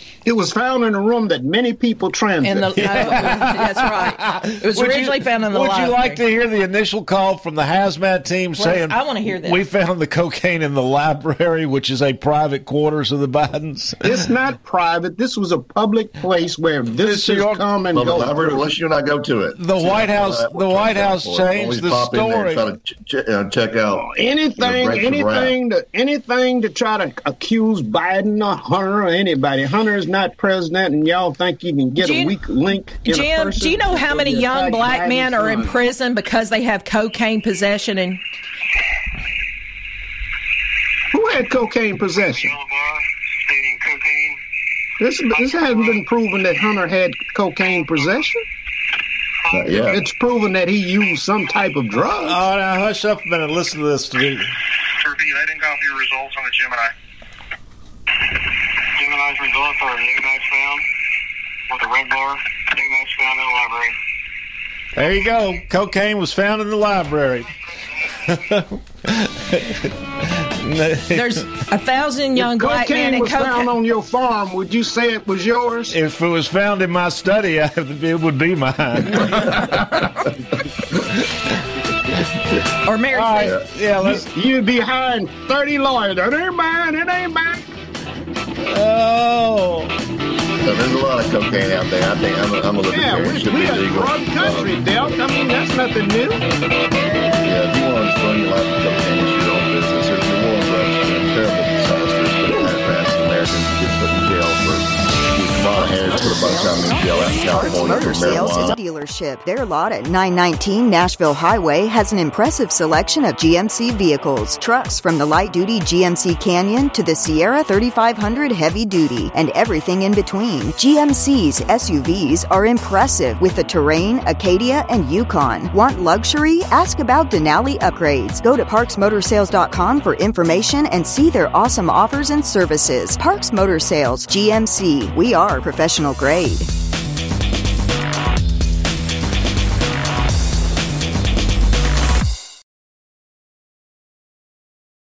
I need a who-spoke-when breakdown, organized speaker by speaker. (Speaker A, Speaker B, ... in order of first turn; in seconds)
Speaker A: 0.2-3.3, 14.1-18.7, 23.9-35.8, 41.1-42.5, 45.0-48.4, 49.9-52.4, 72.4-75.9, 84.0-87.6, 92.9-96.5
Speaker B: 2.4-6.2, 8.6-9.6, 32.0-32.4, 33.0-38.2, 71.1-73.7, 82.8-83.6
Speaker C: 2.8-14.2, 17.0-17.7, 19.6-22.6, 52.2-54.5, 65.0-67.5, 68.2-71.5, 75.9-80.2, 83.1-84.3, 88.6-89.9
Speaker D: 17.9-25.6, 49.5-50.0, 90.6-94.8, 97.4-108.8
Speaker E: 42.3-44.4, 45.4-46.0, 55.0-56.9, 59.0-60.9, 61.7-64.0
Speaker F: 106.1-136.7